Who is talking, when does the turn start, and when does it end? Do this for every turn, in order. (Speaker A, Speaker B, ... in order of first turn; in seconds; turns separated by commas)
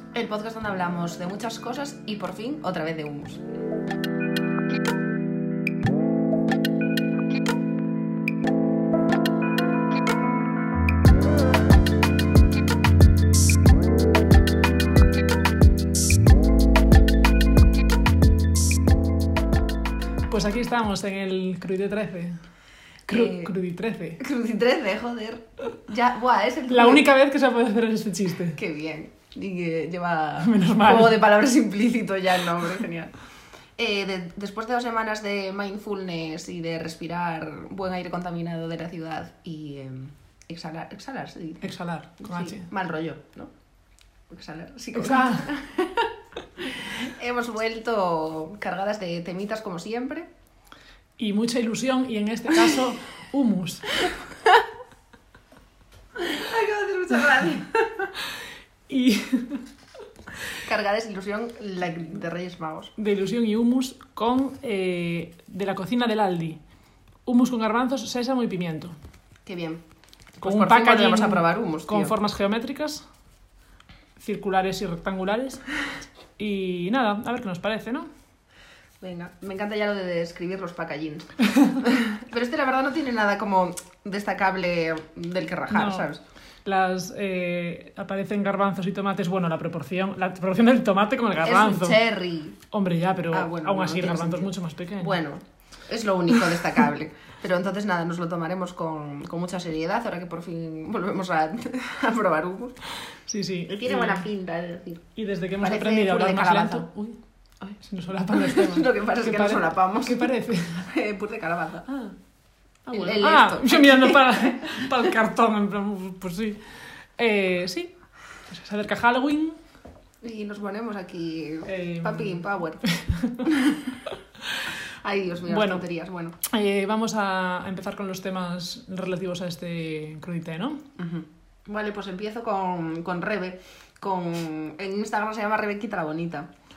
Speaker A: 0.1-3.4, Speaker B: 20.3-22.4, Speaker A: 23.1-23.5, Speaker B: 23.1-24.2, Speaker A: 24.2-27.0, Speaker B: 26.7-28.6, Speaker A: 28.6-33.1, Speaker B: 30.4-31.2, Speaker A: 33.8-41.7, Speaker B: 41.6-42.7, Speaker A: 42.2-43.5, Speaker A: 44.3-50.3, Speaker B: 44.9-45.5, Speaker B: 51.2-54.1, Speaker A: 56.2-58.1, Speaker B: 58.9-59.6, Speaker A: 60.6-62.9, Speaker B: 63.0-66.6, Speaker B: 67.2-68.9, Speaker A: 69.5-69.8, Speaker A: 70.4-72.1, Speaker B: 70.4-73.0, Speaker B: 74.2-75.7, Speaker B: 76.4-78.1, Speaker A: 79.0-86.2, Speaker B: 85.7-86.1, Speaker B: 86.6-92.0, Speaker A: 91.4-92.6, Speaker B: 92.7-95.2, Speaker A: 93.3-102.8, Speaker B: 103.2-104.2, Speaker A: 103.7-105.0, Speaker B: 105.2-107.2, Speaker A: 105.6-106.9, Speaker B: 107.8-110.8, Speaker A: 108.3-111.9, Speaker B: 111.9-112.1, Speaker B: 112.9-116.6, Speaker A: 112.9-114.8, Speaker B: 117.2-117.9, Speaker B: 118.5-119.6, Speaker A: 120.2-122.9, Speaker B: 121.7-123.4, Speaker A: 123.4-124.0, Speaker A: 125.0-126.3, Speaker B: 125.5-125.8, Speaker B: 126.4-130.8, Speaker A: 131.0-136.5